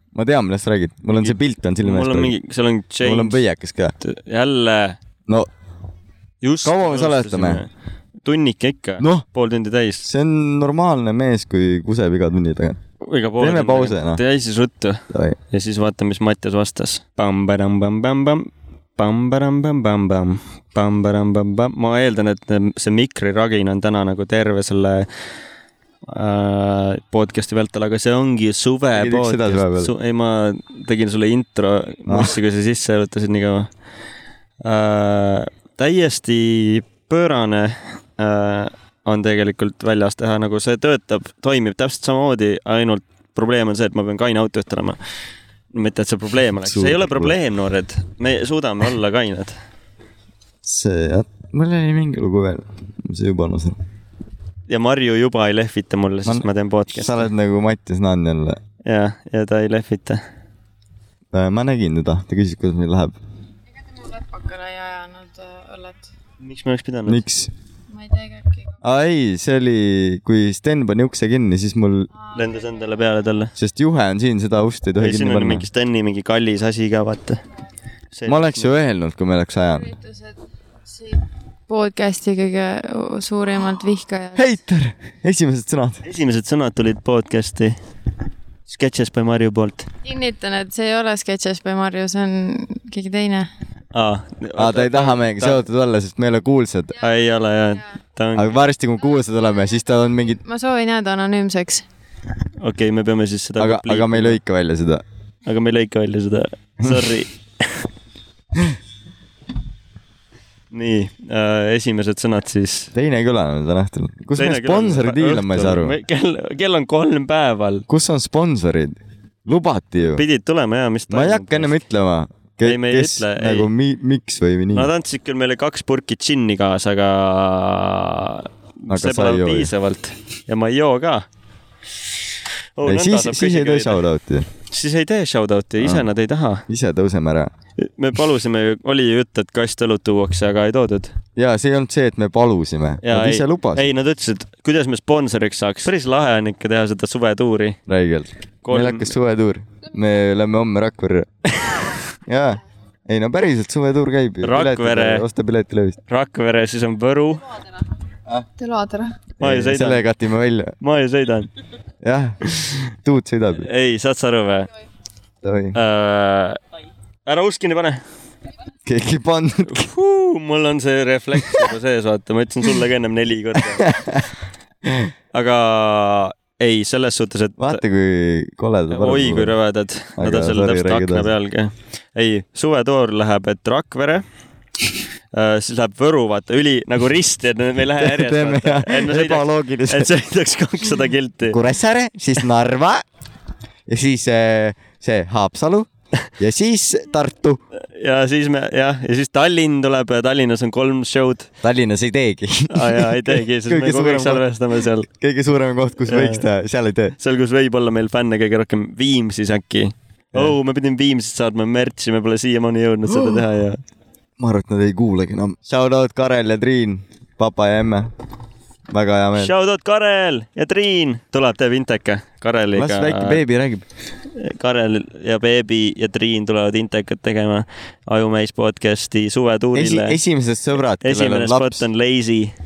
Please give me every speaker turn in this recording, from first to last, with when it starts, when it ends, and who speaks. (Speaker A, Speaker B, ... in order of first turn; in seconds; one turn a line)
Speaker A: 0.1-2.3
Speaker B: 1.1-3.4
Speaker A: 3.0-3.9
Speaker B: 4.0-5.0
Speaker B: 6.4-7.7
Speaker A: 6.6-7.6
Speaker B: 8.2-10.1
Speaker A: 9.0-9.2
Speaker A: 10.0-12.8
Speaker B: 13.0-25.1
Speaker A: 13.4-14.2
Speaker A: 15.1-15.4
Speaker B: 26.1-33.7
Speaker A: 28.9-29.9
Speaker A: 32.1-32.3
Speaker B: 34.6-45.0
Speaker B: 45.7-49.6
Speaker A: 46.6-47.4
Speaker A: 50.6-53.8
Speaker B: 54.7-57.2
Speaker A: 56.2-58.6
Speaker B: 58.9-60.2
Speaker A: 61.3-63.1
Speaker C: 64.0-66.1
Speaker B: 66.4-67.2
Speaker A: 67.0-67.5
Speaker C: 67.9-68.7
Speaker A: 68.8-72.1
Speaker B: 72.3-73.5
Speaker C: 72.3-72.8
Speaker A: 73.5-75.7
Speaker B: 75.0-77.4
Speaker B: 78.1-78.7
Speaker A: 78.2-79.9
Speaker C: 79.8-80.3
Speaker C: 80.9-84.4
Speaker A: 84.3-86.0
Speaker B: 86.0-87.7
Speaker B: 88.7-89.9
Speaker C: 90.0-93.5
Speaker B: 93.9-95.6
Speaker A: 94.5-96.9
Speaker B: 97.0-98.5
Speaker A: 98.3-100.4
Speaker C: 100.3-101.8
Speaker B: 102.6-104.4
Speaker A: 103.6-105.0
Speaker B: 105.5-107.8
Speaker B: 110.7-112.9
Speaker A: 112.9-116.0
Speaker B: 114.3-117.8
Speaker A: 117.9-120.2
Speaker B: 120.1-121.8
Speaker A: 121.1-124.9
Speaker B: 122.6-123.7
Speaker B: 124.7-131.2
Speaker A: 128.9-129.7
Speaker B: 132.8-134.0
Speaker A: 132.8-134.5
Speaker B: 134.7-136.6
Speaker A: 135.8-136.1
Speaker A: 136.7-137.5
Speaker B: 137.8-141.1
Speaker A: 141.3-143.9
Speaker B: 143.0-147.8
Speaker A: 147.9-151.3
Speaker B: 148.6-149.1
Speaker A: 152.2-156.0
Speaker B: 154.4-155.2
Speaker B: 156.1-157.4
Speaker C: 158.6-159.2
Speaker A: 159.4-160.7
Speaker B: 159.4-160.0
Speaker B: 160.8-161.5
Speaker A: 162.0-163.7
Speaker B: 163.6-164.7
Speaker A: 165.4-165.8
Speaker B: 165.7-166.6
Speaker B: 167.2-168.0
Speaker A: 168.8-169.9
Speaker B: 169.6-173.9
Speaker A: 173.8-174.2
Speaker A: 174.8-175.1
Speaker B: 175.3-177.8
Speaker A: 177.6-179.6
Speaker B: 178.9-184.2
Speaker A: 180.2-181.3
Speaker B: 185.3-191.6
Speaker A: 187.9-190.1
Speaker A: 191.5-193.0
Speaker A: 193.9-197.6
Speaker B: 197.8-201.5
Speaker A: 201.6-204.4
Speaker B: 202.7-205.1
Speaker A: 205.1-207.1
Speaker B: 206.1-206.4
Speaker B: 207.2-213.8
Speaker A: 213.1-213.4
Speaker A: 214.4-218.1
Speaker A: 218.9-219.5
Speaker B: 219.3-223.4
Speaker A: 222.7-223.8
Speaker B: 224.4-230.2
Speaker A: 229.7-231.8
Speaker B: 231.0-232.5